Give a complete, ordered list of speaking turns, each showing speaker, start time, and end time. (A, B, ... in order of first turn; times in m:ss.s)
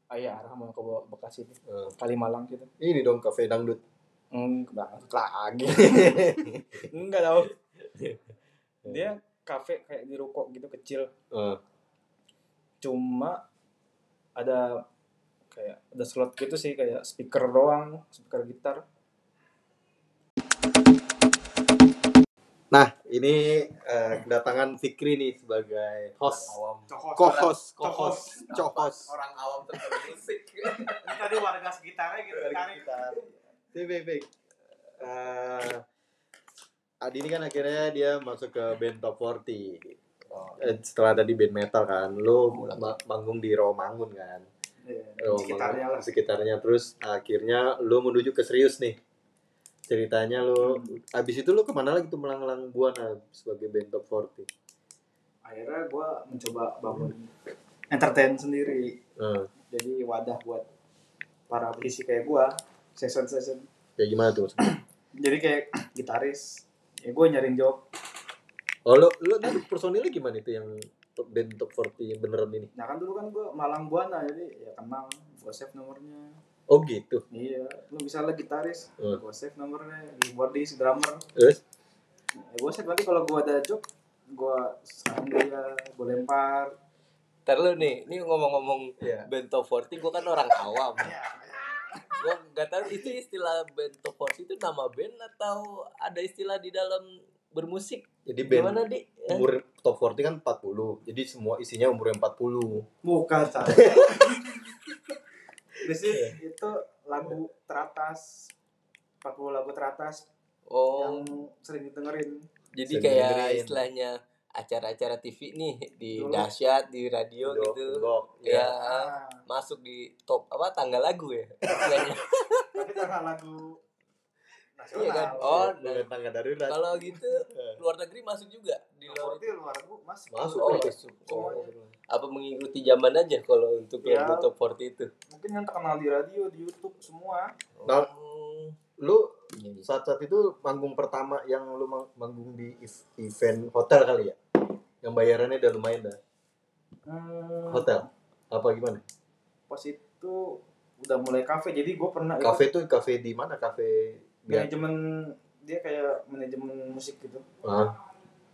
0:00.1-0:02.7 A
0:01.7-0:01.9 B
0:02.8-0:03.8 B
0:04.3-0:07.6 A
0:05.8-0:06.8 B
0:08.8-0:09.1 B
0:08.8-0:11.1 A
0:11.3-0:11.6 B
0:12.8-0:13.4 A
0:14.4-0:14.8 A
0:15.5-0:18.8 A
0:22.7-0:26.6 B
0:26.3-0:26.9 C
0:26.9-0:28.4 A
0:27.2-0:29.1 B
0:28.4-0:31.3 C
0:30.8-0:33.3 A
0:32.3-0:33.2 B
0:33.7-0:34.3 B
0:35.0-0:35.8 B
0:37.0-0:40.0 B
0:40.6-0:44.5 B
0:42.5-0:42.9 C
0:44.8-0:46.1 A
0:45.2-0:49.0 B
0:49.9-0:54.5 B
0:50.6-0:51.0 A
0:55.5-0:57.3 A
0:57.9-0:59.0 A
0:59.2-0:59.5 B
0:59.7-1:00.7 A
1:01.5-1:03.7 A
1:04.0-1:04.7 B
1:05.2-1:07.8 A
1:08.9-1:12.7 B
1:12.8-1:16.3 A
1:16.7-1:17.2 B
1:17.3-1:21.3 A
1:21.4-1:21.6 B
1:22.4-1:26.7 A
1:27.5-1:31.2 C
1:29.0-1:29.3 B
1:31.0-1:32.2 A
1:32.1-1:39.5 C
1:38.3-1:42.9 B
1:43.0-1:44.6 A
1:43.7-1:44.5 B
1:45.8-1:48.5 A
1:46.0-1:46.4 B
1:49.2-1:50.3 A
1:50.7-1:51.3 C
1:51.0-1:52.5 A
1:52.7-2:02.8 C
1:52.9-1:53.9 B
1:56.2-1:56.5 A
1:57.4-1:58.8 B
1:58.7-1:59.4 A
2:01.7-2:02.0 A
2:02.7-2:03.8 A
2:04.8-2:05.7 A
2:04.9-2:06.1 C
2:05.3-2:07.8 B
2:06.7-2:09.6 C
2:09.1-2:11.7 A
2:10.3-2:11.0 B
2:10.6-2:15.1 C
2:11.5-2:11.9 B
2:14.0-2:14.5 A
2:15.3-2:17.5 A
2:17.8-2:18.8 C
2:17.8-2:18.1 B
2:19.0-2:19.3 B
2:19.6-2:19.9 C
2:19.8-2:24.4 B
2:25.0-2:26.2 B
2:27.1-2:28.0 A
2:27.7-2:29.0 B
2:29.7-2:32.7 A
2:32.4-2:34.7 B
2:34.5-2:37.4 A
2:37.6-2:38.0 B